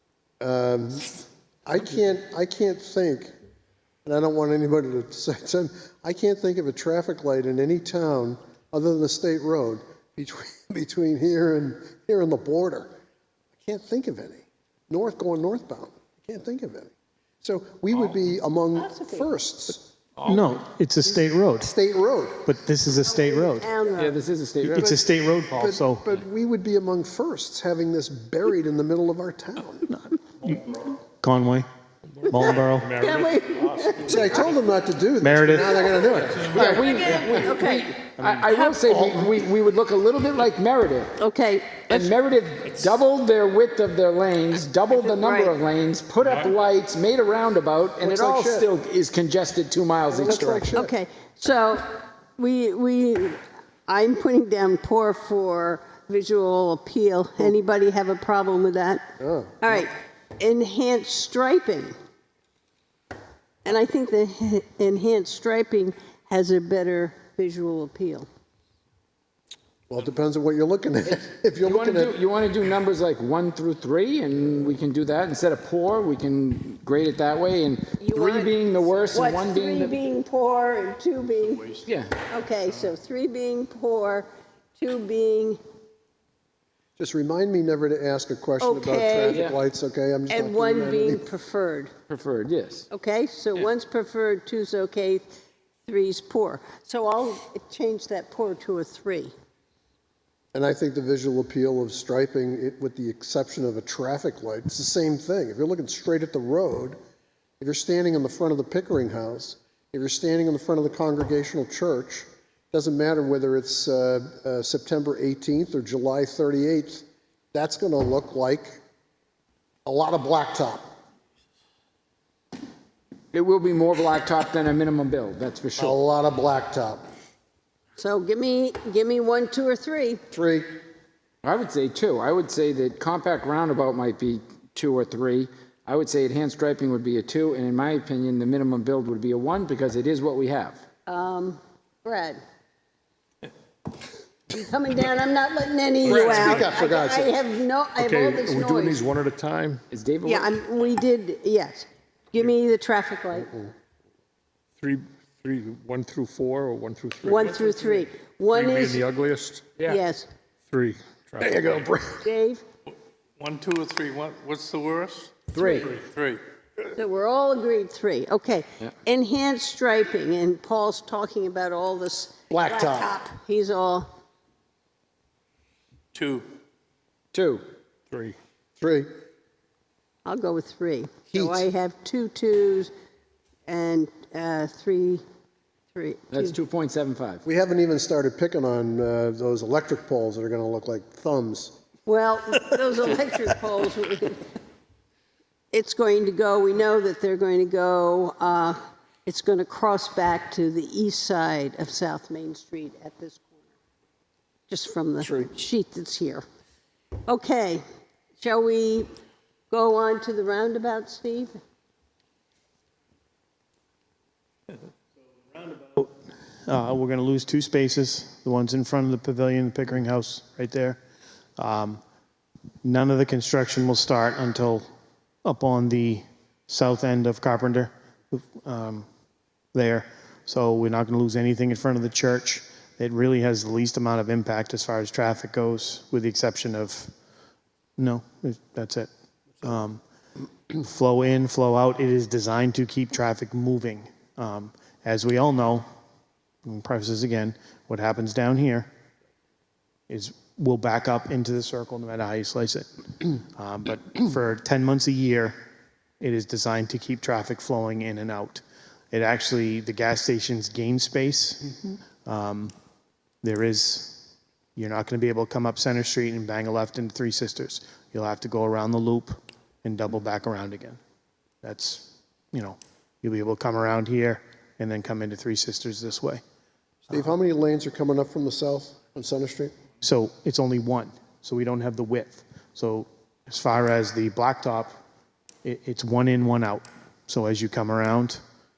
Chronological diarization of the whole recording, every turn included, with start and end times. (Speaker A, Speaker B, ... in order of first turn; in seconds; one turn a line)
Speaker A: 0.4-1.1
Speaker A: 1.6-3.3
Speaker A: 4.0-12.9
Speaker A: 13.6-19.9
Speaker B: 20.2-20.4
Speaker C: 20.2-21.7
Speaker A: 21.6-22.5
Speaker C: 22.4-23.7
Speaker D: 23.2-24.2
Speaker E: 24.0-24.9
Speaker C: 24.6-26.1
Speaker A: 24.8-29.9
Speaker C: 29.9-31.6
Speaker B: 32.2-34.6
Speaker C: 32.2-33.0
Speaker D: 32.3-34.4
Speaker A: 34.0-36.8
Speaker C: 35.2-36.0
Speaker E: 36.4-41.1
Speaker D: 36.7-37.9
Speaker A: 38.9-39.3
Speaker D: 41.2-42.1
Speaker E: 41.9-50.7
Speaker D: 45.0-45.5
Speaker A: 48.0-48.7
Speaker A: 50.1-50.9
Speaker D: 50.7-61.9
Speaker A: 59.2-59.7
Speaker D: 63.6-68.3
Speaker A: 69.9-72.1
Speaker E: 71.6-80.0
Speaker D: 78.0-78.6
Speaker D: 79.1-85.6
Speaker E: 81.8-82.1
Speaker A: 87.0-91.2
Speaker D: 88.6-89.5
Speaker E: 89.3-89.5
Speaker D: 90.3-91.9
Speaker E: 92.1-92.8
Speaker D: 92.9-95.3
Speaker D: 95.8-99.3
Speaker A: 100.5-107.0
Speaker A: 107.6-118.7
Speaker A: 119.8-120.9
Speaker E: 123.3-126.0
Speaker A: 125.8-127.1
Speaker D: 128.0-130.2
Speaker A: 130.3-130.7
Speaker E: 131.4-140.8
Speaker D: 141.1-142.4
Speaker D: 144.5-149.0
Speaker A: 146.0-147.3
Speaker B: 146.1-146.8
Speaker B: 148.0-149.8
Speaker E: 149.9-150.5
Speaker D: 150.2-153.5
Speaker B: 154.8-158.0
Speaker D: 157.2-159.0
Speaker B: 158.5-159.8
Speaker D: 159.8-160.3
Speaker B: 160.7-161.8
Speaker A: 161.4-162.2
Speaker D: 162.2-162.6
Speaker F: 163.4-165.5
Speaker E: 165.5-166.0
Speaker D: 165.6-165.9
Speaker F: 166.0-166.4
Speaker D: 166.9-174.1
Speaker A: 172.5-173.1
Speaker F: 176.1-176.5
Speaker E: 177.3-177.6
Speaker A: 178.8-179.1
Speaker D: 180.2-182.9
Speaker A: 181.3-181.6
Speaker D: 183.7-185.2
Speaker D: 185.9-186.6
Speaker E: 186.3-187.4
Speaker A: 187.4-191.7
Speaker D: 192.1-194.4
Speaker D: 195.7-203.5
Speaker D: 204.7-206.4
Speaker A: 205.2-205.5
Speaker D: 207.2-207.8
Speaker D: 208.4-209.1
Speaker D: 209.7-211.6
Speaker C: 215.7-216.1
Speaker C: 216.7-221.0
Speaker C: 221.6-222.0
Speaker C: 222.8-224.8
Speaker C: 225.4-229.1
Speaker C: 229.7-237.1
Speaker C: 238.0-239.1
Speaker C: 239.6-240.0
Speaker C: 240.7-245.9
Speaker C: 246.6-248.9
Speaker C: 250.1-255.6
Speaker C: 256.2-262.7
Speaker C: 263.4-271.0
Speaker C: 271.6-276.4
Speaker A: 277.1-279.7
Speaker C: 280.0-284.9
Speaker C: 285.6-288.4